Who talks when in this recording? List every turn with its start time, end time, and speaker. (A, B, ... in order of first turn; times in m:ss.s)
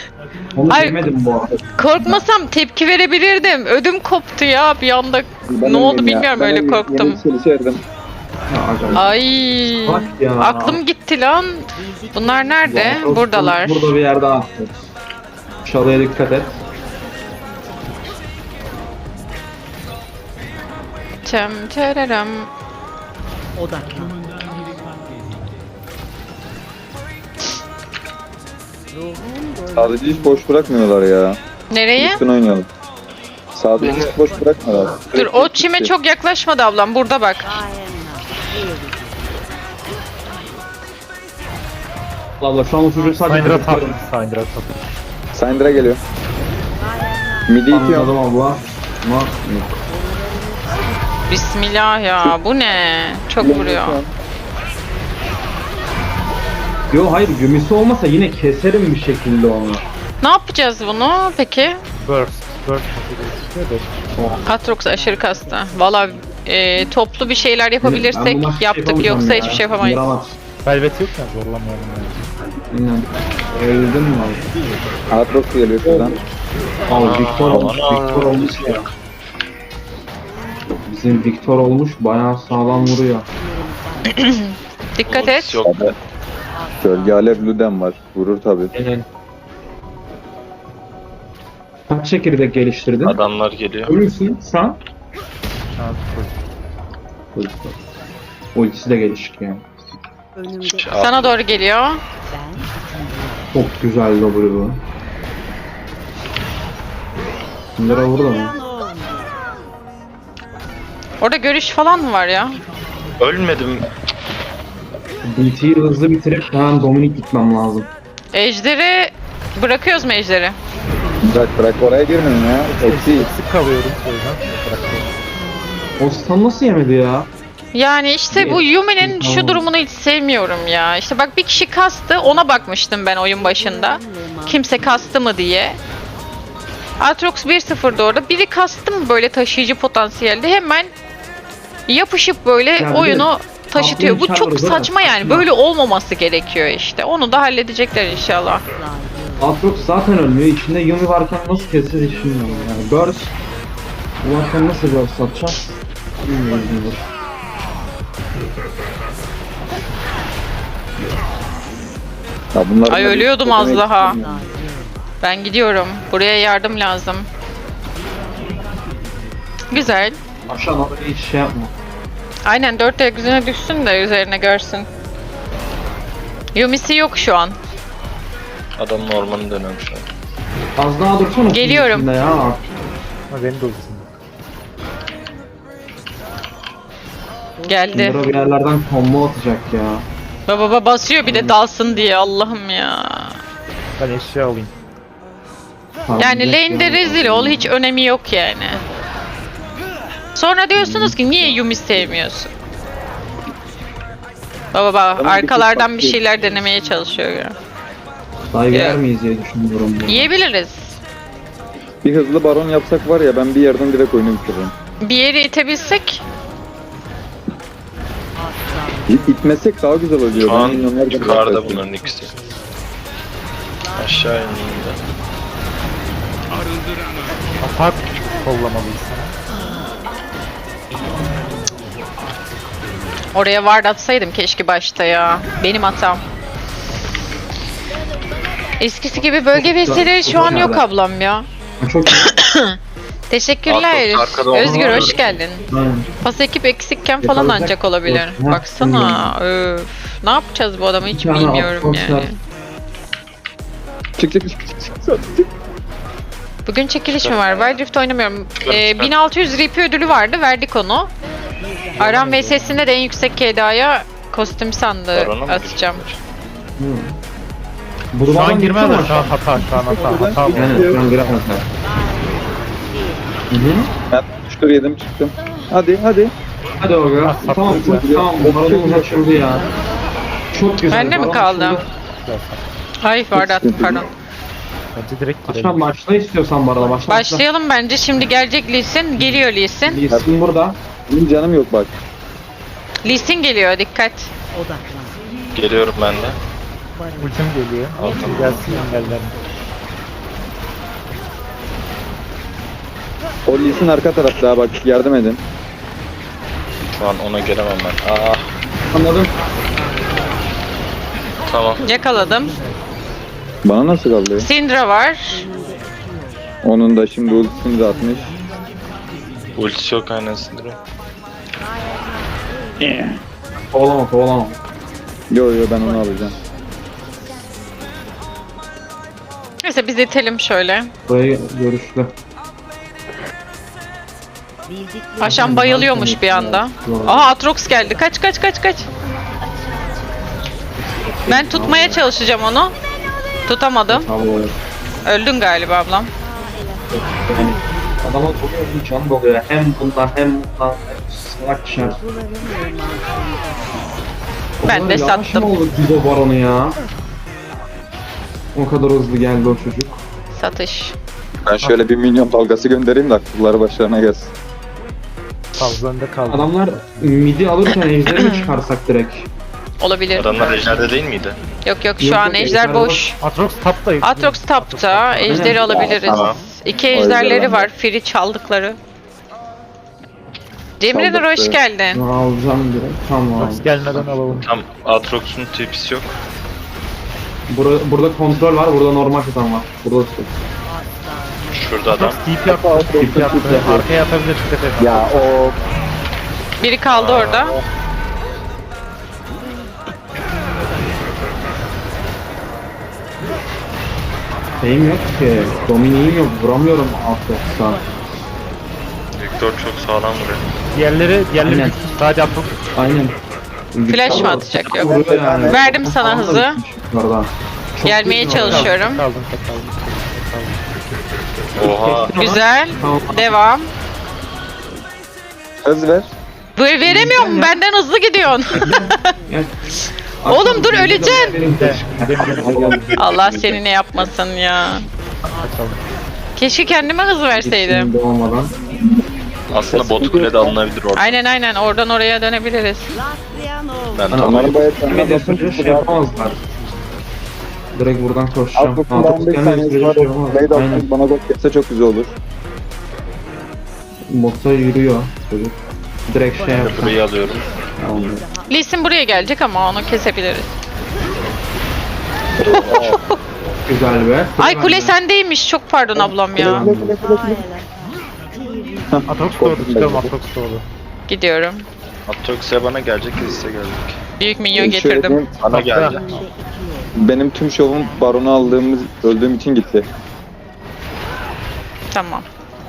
0:00.5-0:02.2 A
0:00.7-0:01.1 B
0:01.8-0:07.2 B
0:05.5-0:07.8 C
0:08.5-0:09.1 A
0:08.9-0:13.9 B
0:09.8-0:10.8 A
0:12.6-0:14.8 A
0:15.6-0:16.6 A
0:21.2-0:22.5 B
0:29.7-0:31.4 C
0:31.7-0:32.2 B
0:32.0-0:32.7 C
0:33.6-0:35.9 C
0:35.1-0:37.6 B
0:42.4-0:44.0 A
0:43.2-0:44.9 D
0:45.3-0:46.0 C
0:47.5-0:48.1 C
0:47.7-0:49.8 A
0:51.3-0:54.0 B
0:53.4-0:54.1 C
0:56.9-0:59.8 A
1:00.2-1:01.8 B
1:02.0-1:04.4 D
1:04.2-1:04.4 A
1:04.4-1:10.1 B
1:07.8-1:10.4 A
1:10.6-1:12.3 D
1:12.7-1:14.5 A
1:15.1-1:16.2 C
1:15.8-1:16.2 A
1:16.9-1:18.9 A
1:16.9-1:18.9 E
1:20.8-1:23.3 A
1:24.1-1:25.6 B
1:25.1-1:26.0 E
1:25.6-1:25.9 C
1:26.8-1:28.7 C
1:28.7-1:29.0 A
1:31.9-1:33.2 A
1:33.0-1:33.9 E
1:33.8-1:34.8 A
1:35.8-1:36.3 D
1:37.3-1:37.8 A
1:38.5-1:39.6 A
1:40.6-1:41.3 E
1:41.0-1:42.0 B
1:43.5-1:44.8 A
1:47.8-1:48.6 A
1:51.2-1:52.6 B
1:53.2-1:53.9 E
1:55.2-1:57.9 A
1:58.3-2:00.6 B
2:01.2-2:03.3 C
2:02.8-2:05.1 D
2:06.0-2:07.3 A
2:07.7-2:15.8 B
2:08.3-2:09.7 A
2:17.0-2:20.9 B
2:21.9-2:28.6 B
2:22.8-2:25.5 A
2:29.4-2:33.3 A
2:34.2-2:35.7 A
2:36.2-2:37.0 A
2:42.5-2:44.4 C
2:42.9-2:44.2 B
2:45.2-2:47.3 B
2:49.7-2:50.2 B
2:50.5-2:51.7 A
2:52.4-2:54.9 B
2:56.6-2:57.6 B
2:58.8-3:00.1 E
3:00.8-3:02.7 A
3:01.5-3:02.2 B
3:03.3-3:04.1 D
3:07.6-3:08.3 B
3:07.9-3:10.1 A
3:10.5-3:13.4 B
3:11.2-3:11.6 A
3:14.0-3:14.7 D
3:16.1-3:17.7 A
3:16.2-3:18.8 B
3:20.3-3:22.5 B
3:20.8-3:21.3 A
3:24.7-3:27.6 B
3:25.2-3:26.2 C
3:28.5-3:30.3 A
3:28.7-3:29.0 B
3:30.1-3:31.0 B
3:32.0-3:34.7 C
3:35.0-3:36.2 B
3:39.1-3:41.8 C
3:40.3-3:42.3 E
3:44.0-3:45.0 E
3:47.6-3:49.3 D
3:53.3-3:56.2 B
3:58.8-4:01.4 B
3:59.5-4:00.8 A
4:01.8-4:02.3 A
4:02.1-4:02.8 B
4:03.3-4:05.6 B
4:03.7-4:05.1 E
4:04.6-4:06.1 A
4:06.2-4:12.4 B
4:07.2-4:09.3 A
4:11.1-4:12.3 A
4:14.2-4:15.5 C
4:16.7-4:21.1 B
4:17.2-4:17.8 E
4:18.6-4:19.1 E
4:22.0-4:26.0 B
4:22.0-4:22.4 A
4:22.1-4:22.5 D
4:25.1-4:26.2 E
4:26.8-4:27.2 A
4:28.1-4:29.4 A
4:28.3-4:31.4 D
4:29.9-4:31.0 C
4:30.5-4:31.6 A
4:33.5-4:33.9 A
4:34.1-4:36.3 C
4:36.8-4:39.7 A
4:37.2-4:38.1 D
4:37.7-4:39.3 C
4:40.5-4:41.9 A
4:40.9-4:41.8 B
4:42.2-4:42.6 D
4:43.0-4:44.1 B
4:43.3-4:44.1 C
4:44.9-4:45.8 D
4:45.5-4:47.4 A
4:47.1-4:50.0 B
4:49.8-4:50.8 A
4:50.1-4:50.4 C
4:51.1-4:51.9 C
4:53.0-4:54.3 B
4:55.6-4:56.4 E
4:57.2-4:59.4 D
4:58.0-4:58.7 E
5:03.5-5:05.4 C
5:07.0-5:08.4 E
5:08.9-5:09.3 A
5:11.5-5:11.8 E
5:11.8-5:12.6 B
5:13.6-5:14.5 C
5:14.4-5:15.5 B
5:16.6-5:18.3 C
5:19.6-5:20.8 E
5:22.8-5:23.1 C
5:23.7-5:24.6 A
5:25.3-5:26.3 C
5:29.6-5:30.9 B
5:31.1-5:32.1 A
5:35.2-5:37.3 A
5:35.2-5:38.9 B
5:35.3-5:35.6 D
5:40.8-5:42.0 A
5:41.3-5:42.7 B
5:43.5-5:44.1 B
5:43.9-5:44.6 A
5:45.0-5:46.1 B
5:46.9-5:52.0 A
5:54.6-5:56.8 A
5:54.6-5:55.5 B
5:58.5-6:00.0 A
6:00.4-6:00.9 B
6:01.4-6:04.3 C
6:05.6-6:06.7 D
6:06.3-6:09.3 A
6:08.1-6:08.4 B
6:09.8-6:10.6 B
6:10.2-6:11.4 E
6:11.6-6:13.2 B
6:12.0-6:13.1 A
6:13.2-6:15.8 D
6:14.0-6:18.8 B
6:15.3-6:15.8 A
6:15.6-6:16.3 C
6:16.0-6:16.4 E
6:16.9-6:17.7 C
6:20.8-6:22.0 B
6:20.8-6:21.6 C
6:21.9-6:24.4 A
6:23.4-6:24.5 D
6:24.4-6:26.1 E
6:27.5-6:30.3 A
6:31.5-6:32.2 E
6:31.9-6:35.4 D
6:32.4-6:33.9 C
6:32.9-6:33.8 A
6:34.8-6:35.6 C
6:36.6-6:37.6 B
6:36.9-6:37.6 E
6:44.6-6:47.8 A
6:49.2-6:50.4 E
6:50.7-6:52.6 D
6:51.4-6:51.8 A
6:52.8-6:53.2 A
6:53.7-6:58.8 A
6:53.9-6:56.6 B
6:54.1-6:55.7 C
6:57.8-6:59.0 B
6:58.3-7:00.6 D
7:01.6-7:02.2 E
7:01.6-7:03.4 A
7:02.2-7:03.7 B
7:05.6-7:06.1 C
7:06.6-7:09.1 B
7:06.8-7:07.6 A
7:08.6-7:09.5 A
7:10.2-7:12.8 A
7:10.3-7:11.4 B
7:11.4-7:12.9 D
7:12.4-7:13.6 E
7:13.0-7:14.8 B
7:15.4-7:15.8 D
7:16.4-7:17.9 B
7:17.4-7:18.5 A
7:19.5-7:21.2 E
7:19.5-7:20.6 C
7:20.9-7:22.9 B
7:23.9-7:24.7 E
7:24.1-7:26.4 A
7:24.2-7:26.1 C
7:27.8-7:30.8 A
7:28.6-7:32.1 C
7:34.1-7:35.6 A
7:36.1-7:37.0 A
7:36.5-7:37.5 E
7:37.8-7:38.3 A
7:38.5-7:40.5 B
7:42.4-7:43.0 E
7:42.5-7:43.2 B
7:43.7-7:44.9 A
7:44.4-7:46.6 B
7:46.0-7:47.4 C
7:46.3-7:47.0 A
7:48.9-7:50.1 C
7:49.1-7:50.6 D
7:51.1-7:51.7 B
7:52.1-7:54.0 E
7:54.2-7:55.2 B
7:54.6-7:55.3 C
7:55.4-7:56.2 E
7:55.5-7:56.0 D
7:56.9-7:59.9 C
8:01.9-8:02.2 B